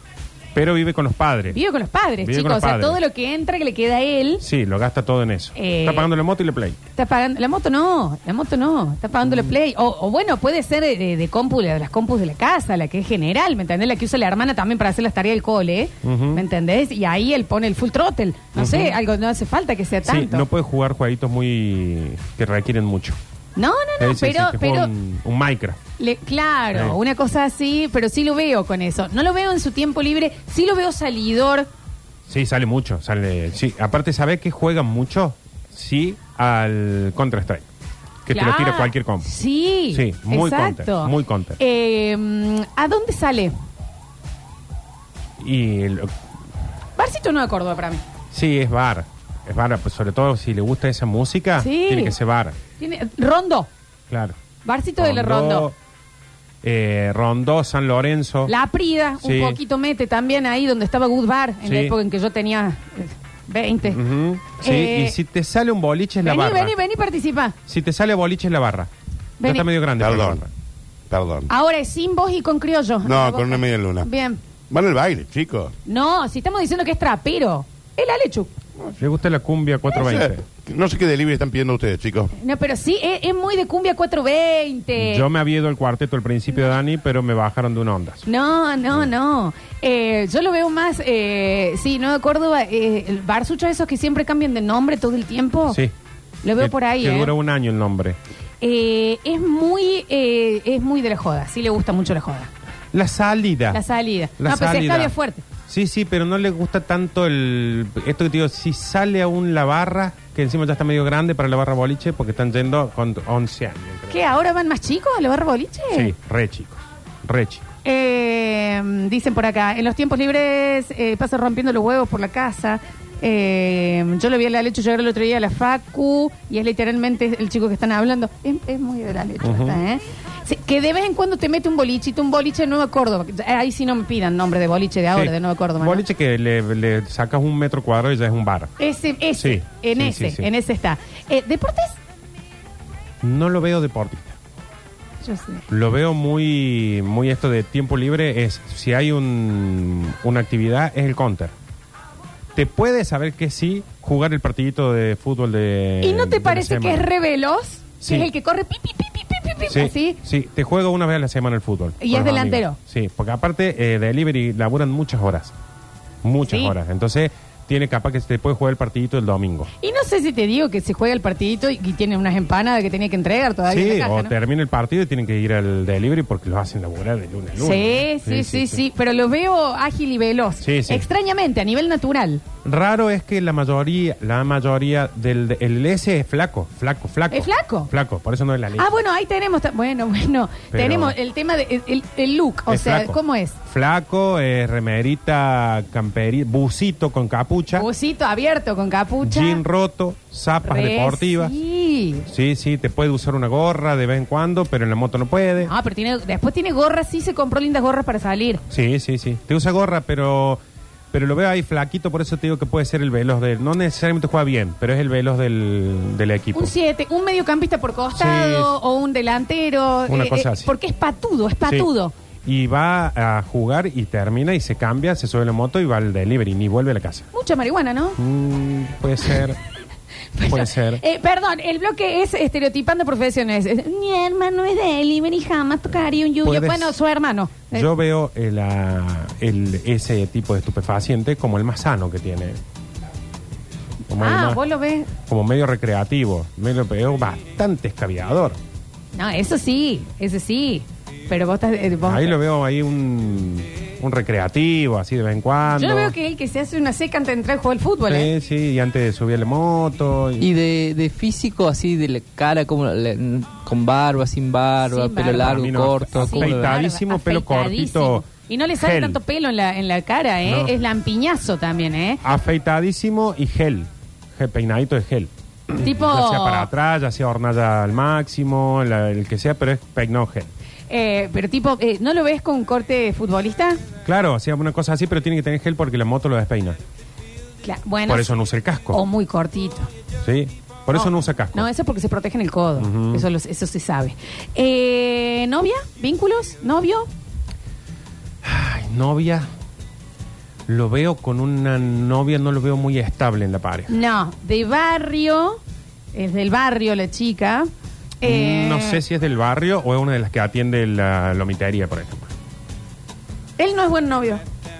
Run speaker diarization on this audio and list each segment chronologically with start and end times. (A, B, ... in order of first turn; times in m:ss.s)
0:00.5-0:01.6 A
0:01.5-0:04.4 B
0:02.2-0:03.0 A
0:04.4-0:06.8 A
0:05.6-0:06.1 B
0:07.0-0:20.5 B
0:09.2-0:09.5 A
0:16.0-0:16.4 A
0:18.6-0:19.0 A
0:20.0-0:23.2 A
0:23.6-0:24.9 B
0:24.0-0:25.8 A
0:26.0-0:31.7 B
0:26.7-0:27.0 A
0:32.3-0:37.7 A
0:38.3-0:39.3 A
0:38.3-0:43.5 B
0:39.9-0:41.6 A
0:45.4-0:46.1 A
0:47.0-0:48.0 B
0:48.3-0:52.6 A
0:51.6-0:52.2 B
0:52.8-0:53.7 B
0:54.1-0:54.4 A
0:54.6-0:55.7 B
0:55.0-0:55.8 A
0:56.6-0:58.5 A
0:58.5-1:04.0 B
0:59.2-0:59.6 A
1:01.6-1:02.0 A
1:03.9-1:06.8 A
1:04.6-1:05.2 B
1:06.2-1:07.6 B
1:07.7-1:08.9 A
1:09.4-1:09.7 B
1:09.4-1:10.5 A
1:10.0-1:10.4 C
1:11.1-1:11.5 C
1:11.5-1:14.4 B
1:13.0-1:14.1 C
1:14.7-1:15.7 C
1:15.9-1:18.5 B
1:19.0-1:20.4 A
1:19.9-1:22.3 C
1:22.4-1:25.3 B
1:25.0-1:28.2 A
1:28.3-1:35.8 B
1:35.7-1:35.9 A
1:36.4-1:37.3 B
1:36.6-1:38.2 A
1:38.6-1:42.5 B
1:42.9-1:43.8 A
1:43.7-1:45.4 B
1:44.4-1:45.1 A
1:45.7-1:54.3 A
1:54.1-1:56.1 B
1:55.9-1:57.6 A
1:57.8-2:16.0 B
2:09.4-2:09.8 A
2:15.1-2:18.7 A
2:18.8-2:22.0 B
2:19.4-2:20.5 A
2:23.2-2:24.4 A
2:25.2-2:25.6 B
2:25.7-2:31.5 A
2:32.6-2:37.1 A
2:36.0-2:40.2 B
2:38.0-2:38.3 A
2:39.7-2:45.5 A
2:42.0-2:42.8 B
2:46.2-2:49.7 A
2:46.5-2:46.8 B
2:49.8-2:54.3 B
2:53.7-2:58.8 A
2:57.6-3:02.4 B
3:00.6-3:01.1 A
3:02.6-3:08.9 A
3:07.3-3:07.9 B
3:08.8-3:13.6 B
3:10.7-3:11.2 A
3:12.7-3:17.9 A
3:17.8-3:19.6 B
3:19.2-3:21.5 A
3:20.6-3:22.3 B
3:22.3-3:25.7 A
3:25.6-3:28.6 B
3:28.7-3:30.6 A
3:31.1-3:36.7 A
3:36.5-3:42.1 B
3:38.2-3:38.7 A
3:40.1-3:40.7 A
3:42.4-3:47.3 A
3:47.3-3:48.2 B
3:48.2-3:49.6 A
3:50.4-3:57.9 B
3:50.5-3:51.0 A
3:56.4-3:57.0 A
3:57.7-4:02.6 A
4:04.1-4:04.6 A
4:04.2-4:05.1 B
4:05.2-4:08.6 A
4:09.2-4:12.4 B
4:12.0-4:16.2 A
4:15.7-4:18.3 B
4:18.1-4:20.5 A
4:20.4-4:26.8 D
4:24.8-4:25.6 B
4:25.3-4:28.3 A
4:26.2-4:32.2 B
4:28.8-4:29.2 A
4:30.4-4:30.7 A
4:32.2-4:40.5 A
4:35.8-4:36.7 B
4:40.9-4:43.8 B
4:44.0-4:46.8 A
4:47.6-4:48.3 B
4:48.1-4:49.0 A
4:48.9-4:49.9 B
4:50.2-4:51.7 A
4:50.9-4:57.1 B
4:52.8-4:53.2 A
4:58.4-4:59.5 A
5:00.7-5:03.9 A
5:03.9-5:05.6 B
5:06.1-5:07.7 B
5:08.2-5:09.0 B
5:08.2-5:12.3 A
5:13.6-5:14.4 B